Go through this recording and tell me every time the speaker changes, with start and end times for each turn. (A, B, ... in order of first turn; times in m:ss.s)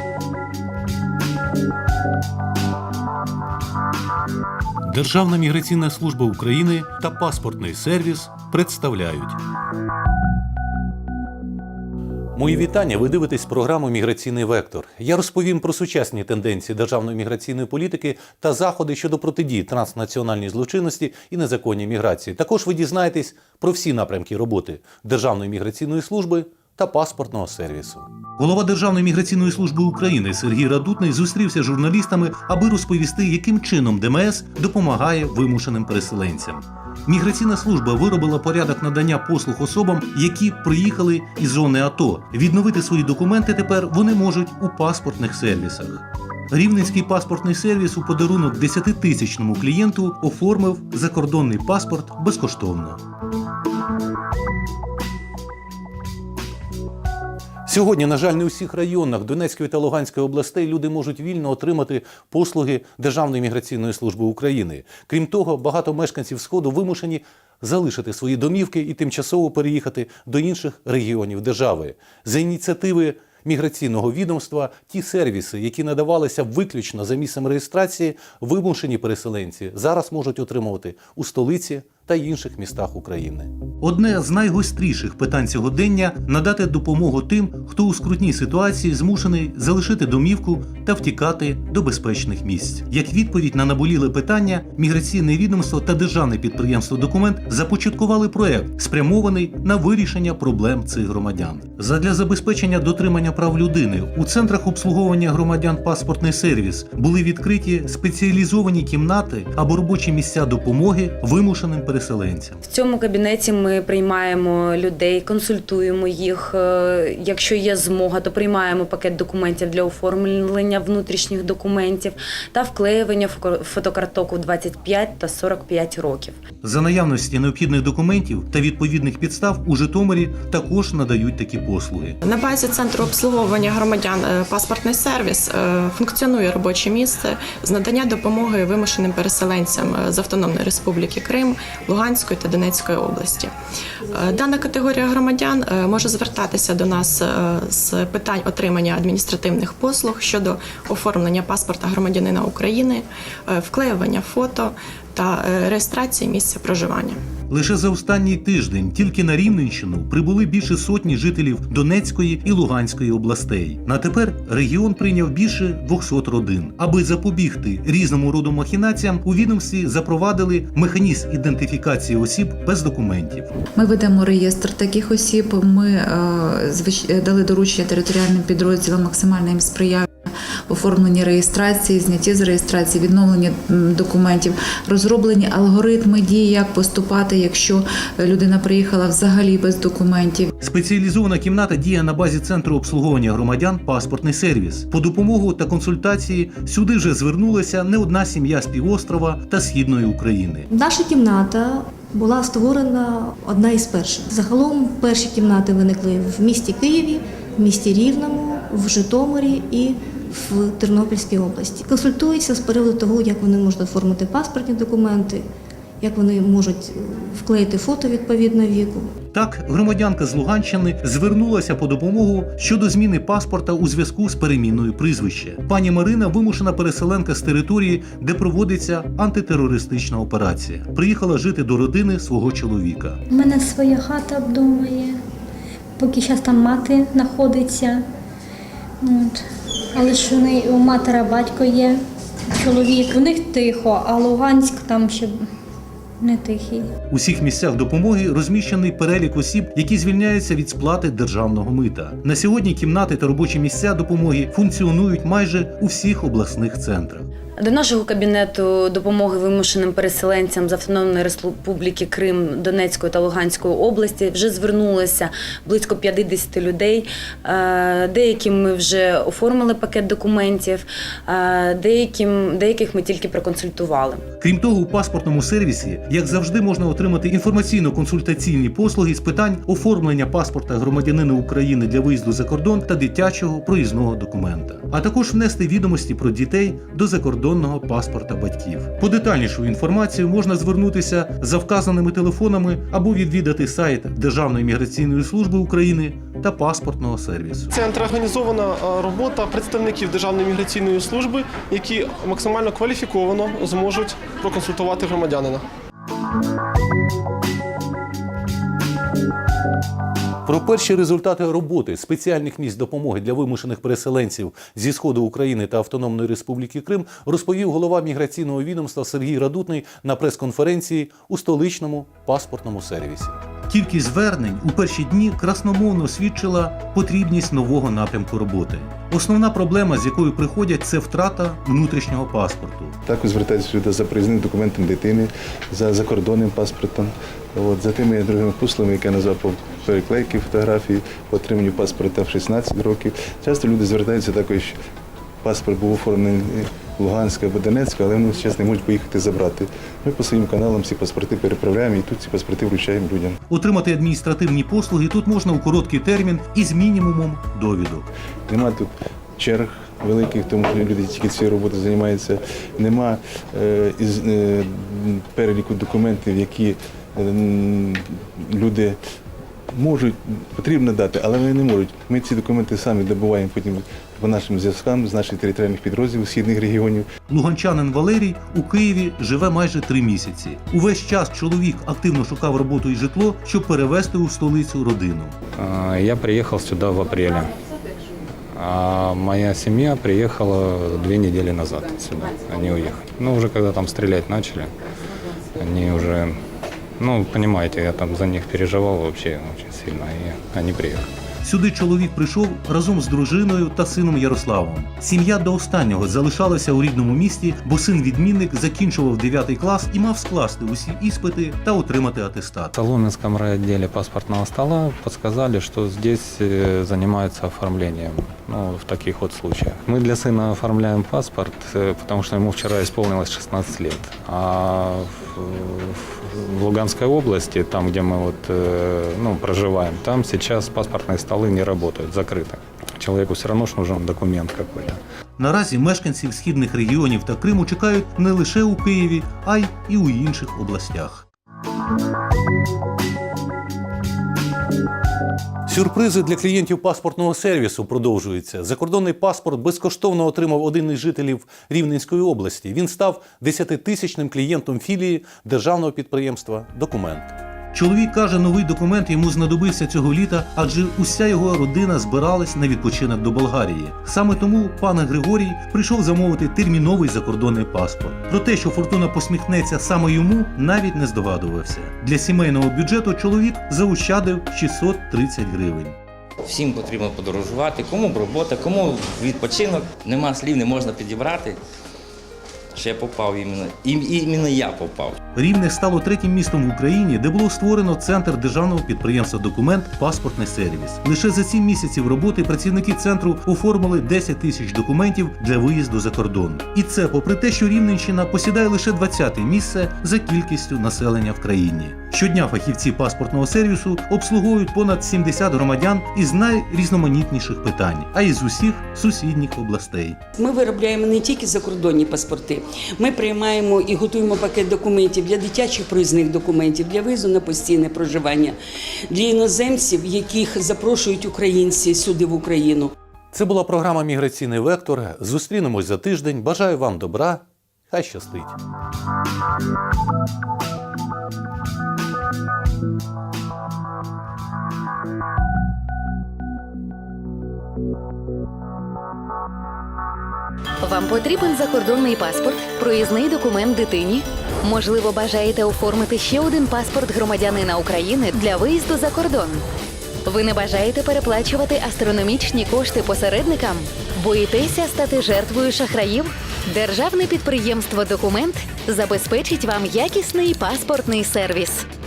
0:04.8-0:09.4 A
0:12.3-0:53.0 A
0:57.6-1:52.6 A
1:52.6-2:06.4 B
2:06.6-2:12.2 A
2:12.2-2:23.5 C
2:24.1-2:37.2 C
2:37.5-2:53.5 A
2:53.7-3:00.1 D
3:00.7-3:10.5 D
3:10.6-3:20.7 A
3:20.7-3:35.4 E
3:36.0-3:39.1 E
3:39.3-3:53.2 A
3:53.3-3:55.2 F
3:56.0-3:58.0 F
3:59.0-3:59.4 F
3:59.9-4:02.0 F
4:02.5-4:05.4 F
4:06.2-4:06.9 F
4:07.1-4:17.3 A
4:17.6-4:34.2 B
4:34.4-4:57.8 A
4:57.7-5:05.6 G
5:10.4-5:33.0 A
5:33.0-5:44.7 H
5:45.4-5:53.4 H
5:53.5-5:58.1 A
5:58.5-6:09.0 H
6:09.7-6:17.1 H
6:17.3-6:25.4 A
6:25.6-6:27.5 I
6:28.5-6:34.7 I
6:35.6-6:36.3 I
6:37.0-6:41.1 I
6:41.4-6:52.7 A
6:52.7-7:15.0 I
7:15.4-7:21.2 A
7:25.7-7:56.0 A
7:56.4-8:01.6 J
8:02.7-8:05.2 J
8:05.4-8:30.2 A
8:30.4-8:38.6 K
8:39.1-8:42.9 K
8:43.3-8:48.6 A
9:00.8-9:09.6 L
9:10.3-9:16.1 L
9:16.7-9:20.8 L